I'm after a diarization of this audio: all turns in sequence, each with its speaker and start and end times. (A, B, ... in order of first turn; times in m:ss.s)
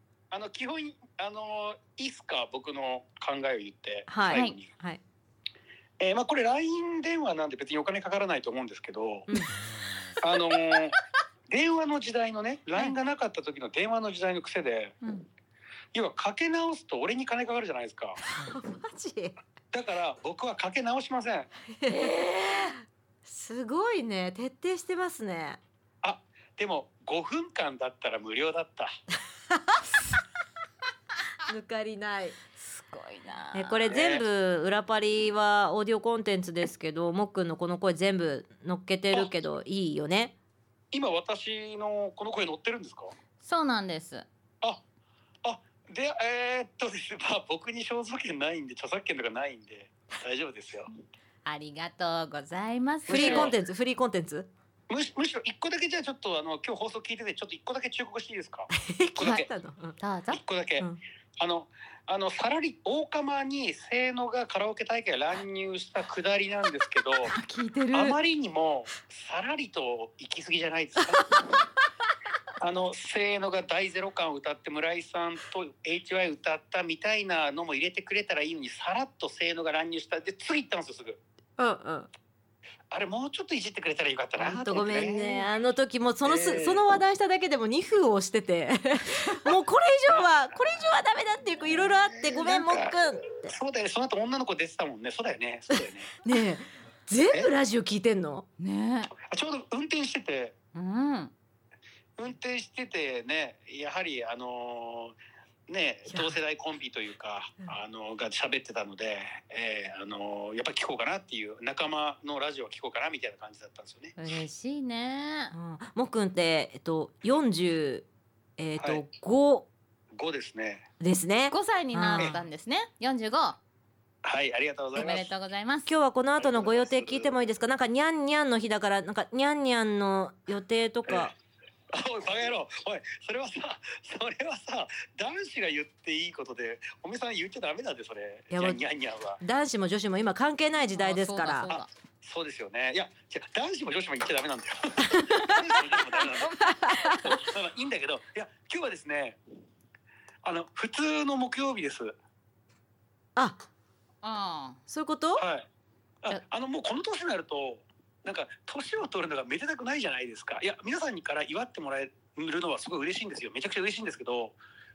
0:00.3-0:04.7 A
0:04.1-0:05.0 B
0:04.3-0:04.6 C
0:06.0-0:09.3 A
0:10.2-0:11.0 A
0:11.5-0:15.0 A
0:15.0-0:15.3 C
0:15.9-0:18.2 A
0:18.2-0:19.4 B
0:19.7-0:21.5 A
0:21.7-0:25.6 B
0:26.0-0:28.9 A
0:29.5-0:29.8 B
0:31.4-0:32.4 B
0:32.6-0:33.9 C
0:33.5-0:40.3 B
0:33.9-0:34.2 A
0:40.9-0:43.1 A
0:43.4-0:44.3 C
0:45.4-0:50.9 A
0:51.4-0:53.5 C
0:53.1-0:53.6 A
0:53.1-0:54.5 B
0:54.9-0:59.5 A
0:58.7-1:00.0 B
1:00.0-1:00.4 C
1:00.3-1:07.3 A
1:07.3-1:08.2 B
1:07.9-1:11.6 A
1:12.6-1:21.2 A
1:21.6-1:22.1 B
1:22.9-1:25.5 A
1:24.4-1:33.5 B
1:26.2-1:26.9 A
1:32.1-1:36.2 A
1:36.2-1:38.5 B
1:38.6-1:39.1 C
1:39.2-1:40.6 A
1:40.7-1:41.3 C
1:42.2-1:54.2 A
1:46.1-1:46.4 B
1:54.2-1:55.6 C
1:55.5-1:58.1 B
1:58.6-1:59.7 B
1:58.8-1:59.0 A
2:00.1-2:00.9 A
2:01.0-2:02.4 B
2:01.5-2:03.6 C
2:04.2-2:05.3 A
2:05.0-2:05.2 B
2:05.0-2:05.9 C
2:05.9-2:11.3 B
2:06.4-2:07.5 A
2:11.1-2:11.3 A
2:11.9-2:19.4 A
2:18.5-2:18.8 B
2:19.4-2:21.8 B
2:20.9-2:21.9 C
2:22.2-2:26.6 A
2:25.1-2:25.8 B
2:26.3-2:27.3 C
2:27.2-2:29.4 A
2:30.4-2:32.1 A
2:33.4-2:33.7 B
2:34.2-2:34.8 C
2:34.9-2:35.4 B
2:35.4-2:35.7 A
2:36.2-2:44.6 A